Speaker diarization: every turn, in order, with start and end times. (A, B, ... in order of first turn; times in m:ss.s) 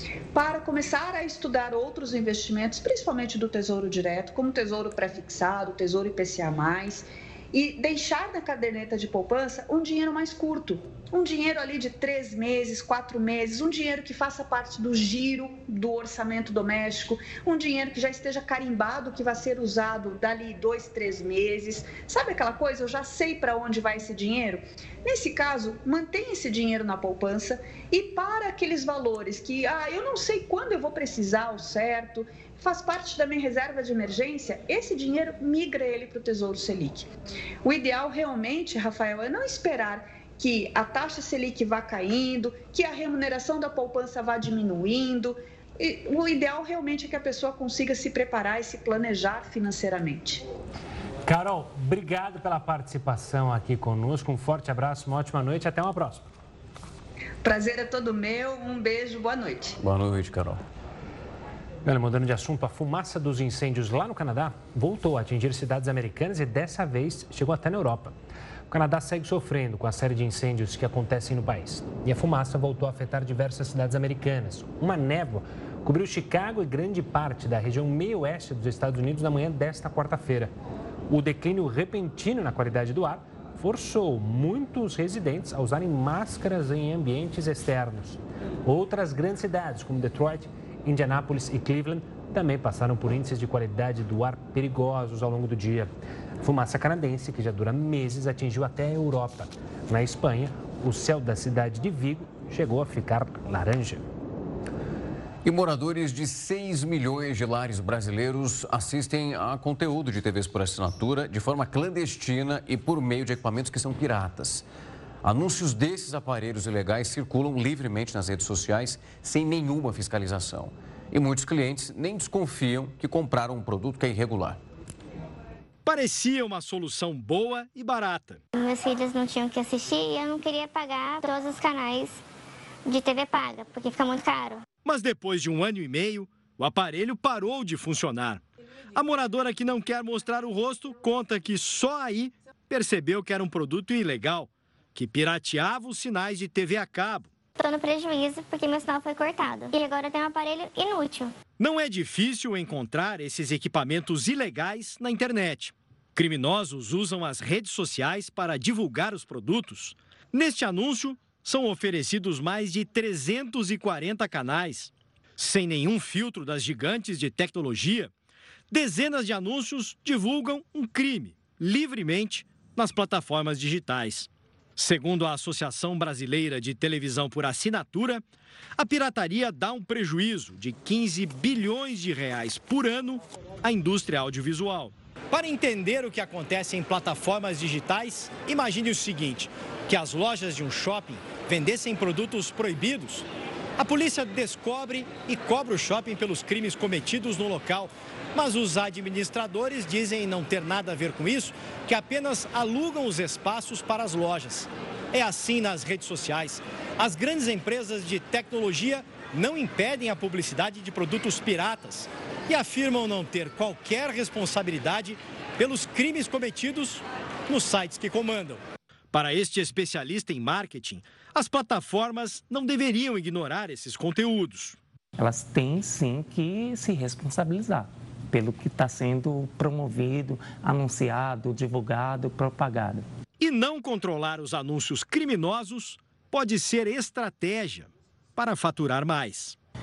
0:00.3-0:37.1 A
0:37.6-0:50.4 A
0:51.2-0:56.3 B
0:57.4-0:59.8 A
0:59.8-1:00.6 C
1:01.8-1:08.1 B
1:08.7-1:20.5 B
1:21.1-1:35.9 B
1:36.4-1:44.0 B
1:45.4-1:54.6 C
1:55.2-2:04.6 C
2:05.8-2:08.4 D
2:08.5-2:12.2 E
2:12.8-2:14.6 E
2:14.8-2:18.4 D
2:18.9-2:27.3 D
2:27.6-2:31.3 E
2:31.6-2:48.1 D
2:48.7-2:58.2 D
2:58.8-3:13.3 D
3:13.8-3:38.6 D
3:39.1-3:44.8 D
3:45.2-3:53.1 F
3:53.4-3:59.6 D